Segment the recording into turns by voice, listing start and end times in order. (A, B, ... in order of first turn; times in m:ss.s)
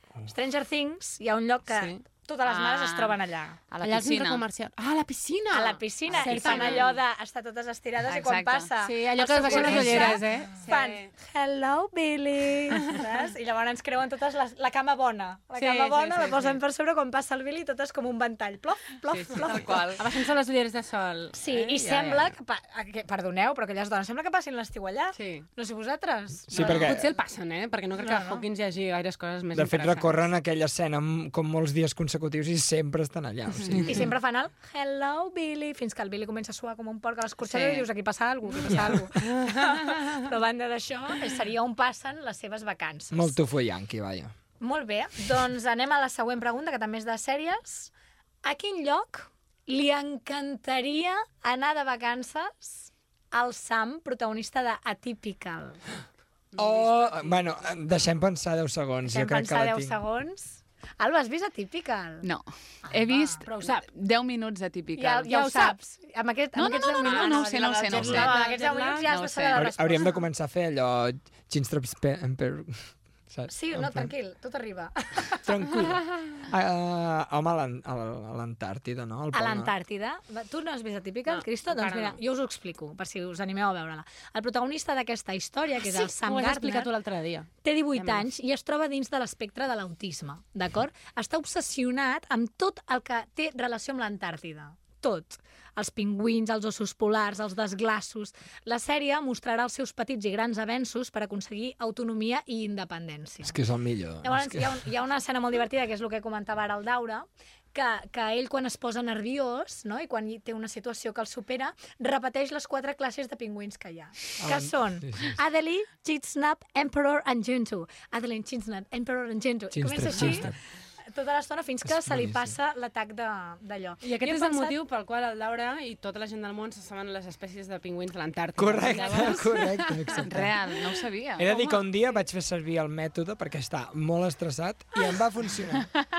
0:00.3-0:03.6 A
0:01.7-0:02.0 B
0:02.6-0:03.1 C
0:03.7-0:04.5 C
0:03.8-0:07.0 B
0:05.5-0:19.9 A
0:06.3-0:06.8 C
0:08.1-0:08.7 C
0:08.8-0:11.1 B
0:09.4-0:10.2 C
0:15.6-0:16.6 B
0:19.1-0:22.3 B
0:19.4-0:20.0 C
0:21.3-0:26.9 A
0:25.2-0:25.5 B
0:26.5-0:27.1 D
0:26.6-0:30.2 B
0:28.0-0:28.4 A
0:29.5-0:34.0 D
0:33.7-0:34.0 B
0:33.8-0:43.4 A
0:37.5-0:37.9 C
0:38.6-0:40.2 B
0:43.1-0:44.4 D
0:44.6-0:47.9 A
0:48.4-0:55.8 A
0:56.5-0:57.8 B
0:56.6-1:00.0 D
0:59.0-1:02.3 A
1:02.2-1:05.3 C
1:02.8-1:03.8 A
1:03.4-1:03.9 B
1:05.0-1:10.3 A
1:05.2-1:05.8 B
1:06.6-1:08.5 C
1:06.8-1:09.1 B
1:09.1-1:09.7 C
1:09.6-1:14.1 D
1:13.5-1:15.5 A
1:15.4-1:19.7 D
1:19.3-1:26.9 A
1:21.3-1:22.2 B
1:25.8-1:28.3 B
1:27.6-1:43.6 A
1:43.4-1:44.9 D
1:44.2-2:00.6 A
1:54.4-1:55.4 D
1:59.7-2:00.6 D
2:01.1-2:04.8 A
2:01.8-2:02.6 D
2:04.0-2:11.8 B
2:08.6-2:10.6 D
2:08.9-2:09.5 A
2:10.3-2:11.5 C
2:11.4-2:15.9 D